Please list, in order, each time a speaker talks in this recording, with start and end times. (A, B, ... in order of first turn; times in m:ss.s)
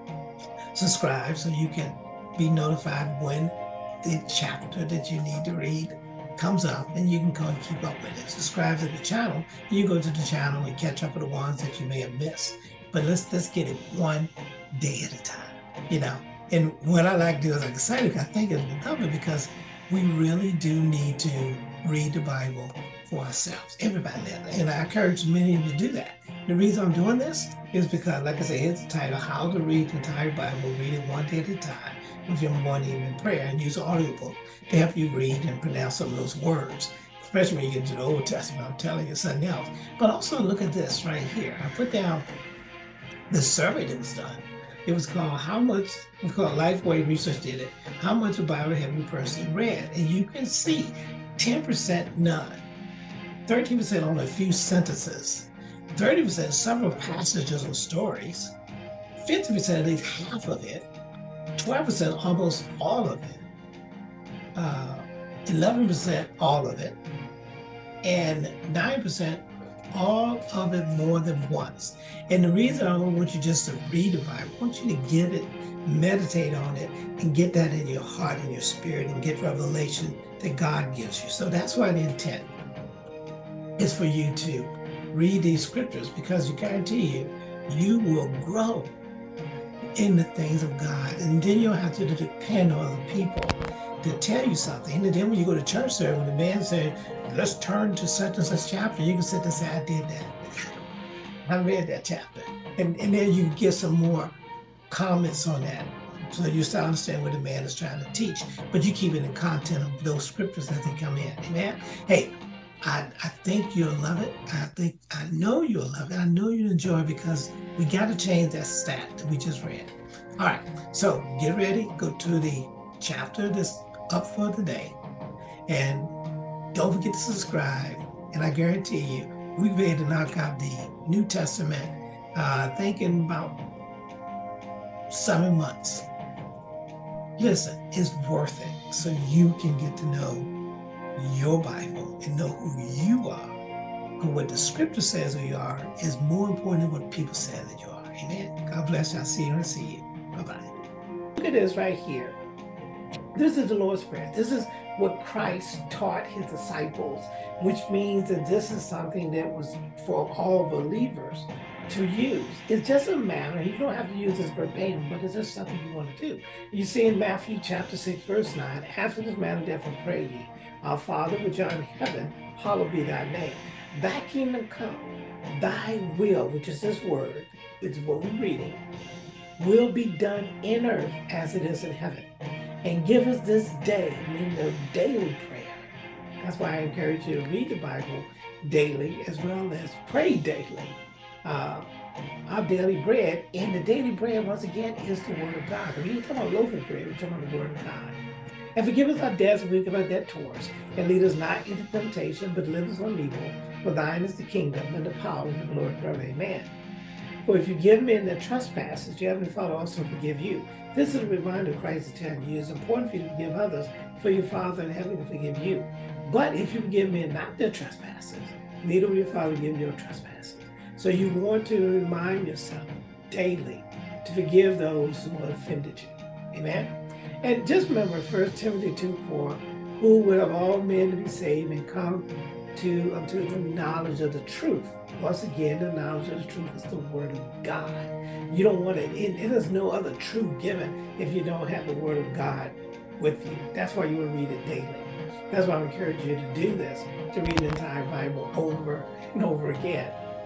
0:00.7-0:42.3 A
0:43.3-0:52.6 A
0:53.5-0:58.6 A
0:59.2-1:00.9 A
1:01.6-1:03.5 A
1:04.5-1:07.0 A
1:08.0-1:22.5 A
1:23.8-1:28.9 A
1:30.0-1:40.7 A
1:41.4-1:44.4 A
1:44.9-2:05.0 A
2:05.7-2:06.2 A
2:06.7-2:13.6 A
2:15.1-2:16.1 A
2:17.4-2:20.5 A
2:21.2-2:23.5 A
2:24.2-2:30.7 A
2:31.4-2:32.4 A
2:33.3-2:58.8 A
2:59.6-3:02.3 A
3:02.8-3:11.9 A
3:12.5-3:18.2 A
3:18.8-3:26.7 A
3:27.4-4:10.2 A